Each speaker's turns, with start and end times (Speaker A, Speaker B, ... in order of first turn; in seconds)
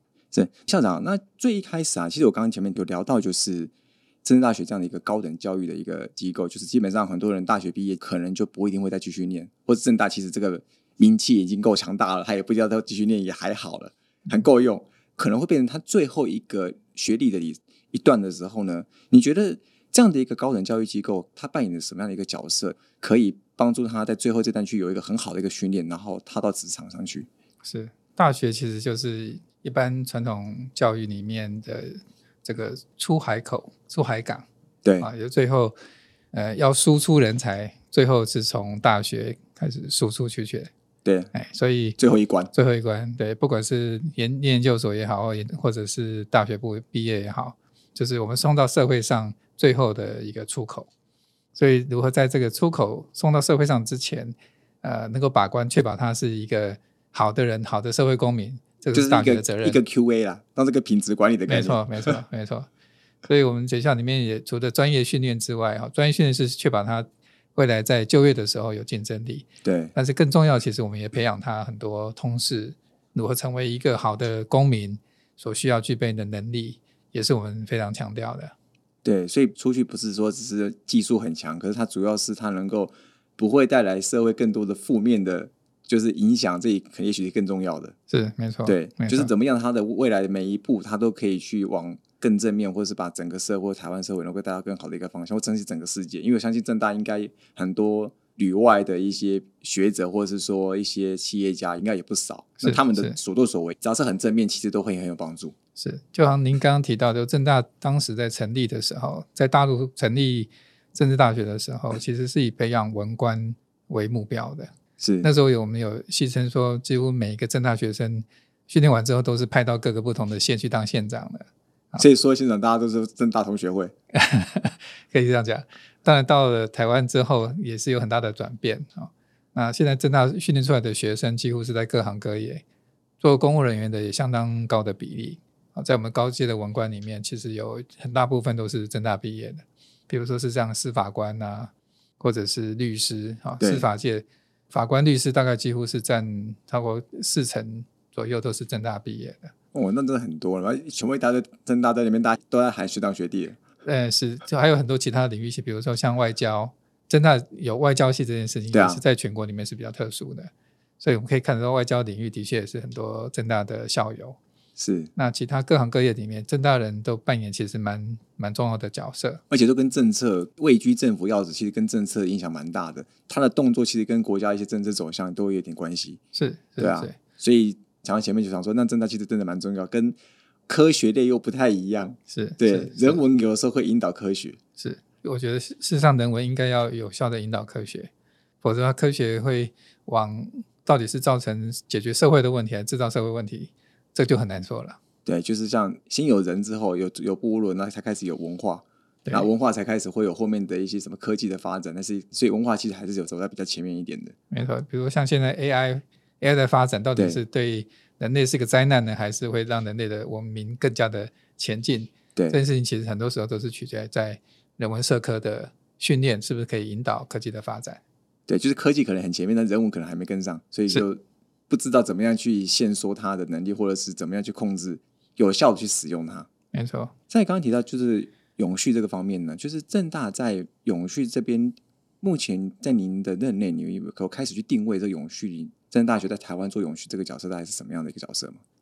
Speaker A: 0.3-3.7, 4.2-27.3, 34.8-35.1, 41.0-41.3, 42.0-42.5, 58.9-62.1, 69.6-69.9, 79.0-88.0, 88.7-105.5, 115.0-115.3, 122.0-123.9, 143.6-143.9, 149.7-153.6, 158.7-159.0, 164.8-165.1, 169.5-176.2, 176.8-184.6, 195.3-204.3, 218.5-226.5, 227.3-238.6
Speaker B: 27.6-34.5, 35.0-35.8, 36.3-40.7, 41.3-42.0, 42.5-50.9, 51.5-59.8, 61.5-62.7, 63.2-78.5, 88.1-89.3, 102.6-103.2, 105.8-114.7, 115.2-122.1, 124.1-132.6, 133.2-149.5, 153.8-164.4, 165.2-169.4, 176.3-177.2, 182.3-183.2, 184.8-188.1, 188.6-195.0, 204.5-218.0, 226.7-227.1